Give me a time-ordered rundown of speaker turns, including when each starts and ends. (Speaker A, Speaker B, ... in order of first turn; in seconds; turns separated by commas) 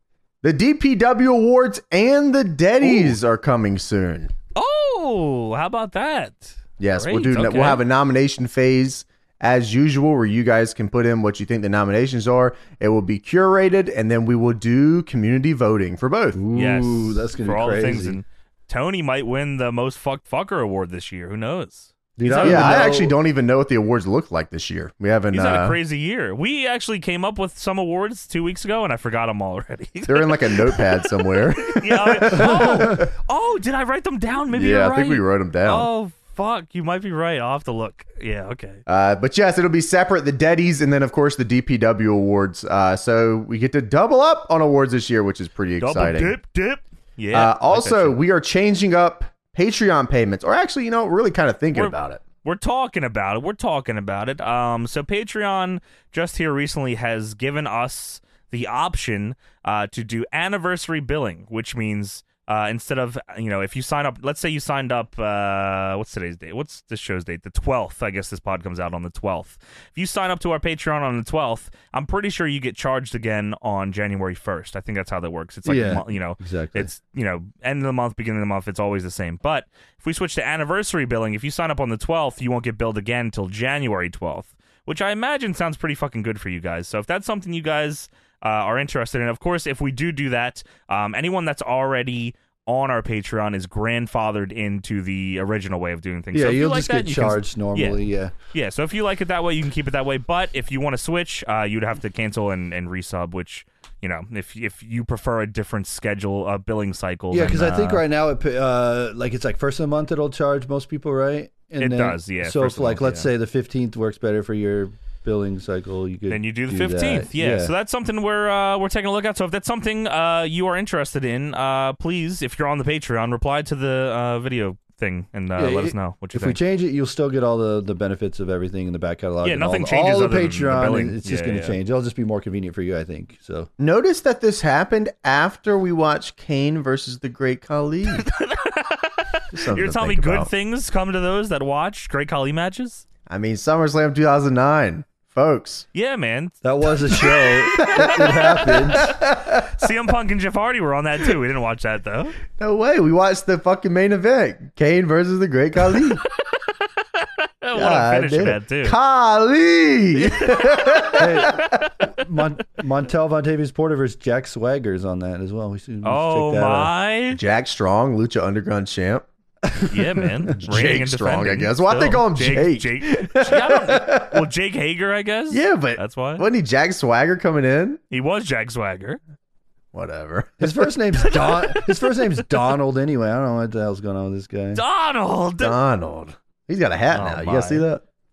Speaker A: 0.4-4.3, Speaker B: 2.8-3.1, Speaker B: 4.6-7.8, Speaker A: 6.8-16.4, Speaker C: 16.3-18.2, Speaker B: 16.5-22.8, Speaker C: 22.2-23.1, Speaker A: 22.4-25.8, Speaker B: 25.3-38.8, Speaker A: 30.1-33.1, Speaker C: 32.3-33.0, Speaker A: 34.5-35.9, Speaker A: 38.9-46.4, Speaker B: 45.8-48.2, Speaker A: 47.3-52.2, Speaker B: 51.8-98.0, Speaker C: 75.7-76.9, Speaker C: 96.3-98.3, Speaker B: 98.5-108.0, Speaker C: 107.3-117.7, Speaker B: 111.8-113.2, Speaker B: 116.3-126.6, Speaker C: 125.6-133.7, Speaker B: 129.4-131.8, Speaker A: 133.8-138.3, Speaker B: 138.2-143.1, Speaker A: 139.5-140.5, Speaker A: 143.3-145.9, Speaker B: 145.9-148.3, Speaker C: 146.6-149.1, Speaker A: 147.8-149.9, Speaker B: 149.1-152.4, Speaker A: 152.6-156.2, Speaker B: 157.2-159.0, Speaker A: 157.7-161.8, Speaker B: 160.2-161.9, Speaker C: 161.1-166.9, Speaker B: 166.0-167.4, Speaker A: 167.3-169.2, Speaker C: 169.7-170.6, Speaker B: 169.9-176.4, Speaker A: 170.6-174.4, Speaker A: 175.5-178.0, Speaker B: 178.1-179.2, Speaker A: 179.9-180.9, Speaker C: 180.6-184.8, Speaker B: 181.2-181.9, Speaker B: 184.7-185.8, Speaker A: 185.6-188.0, Speaker B: 187.1-187.9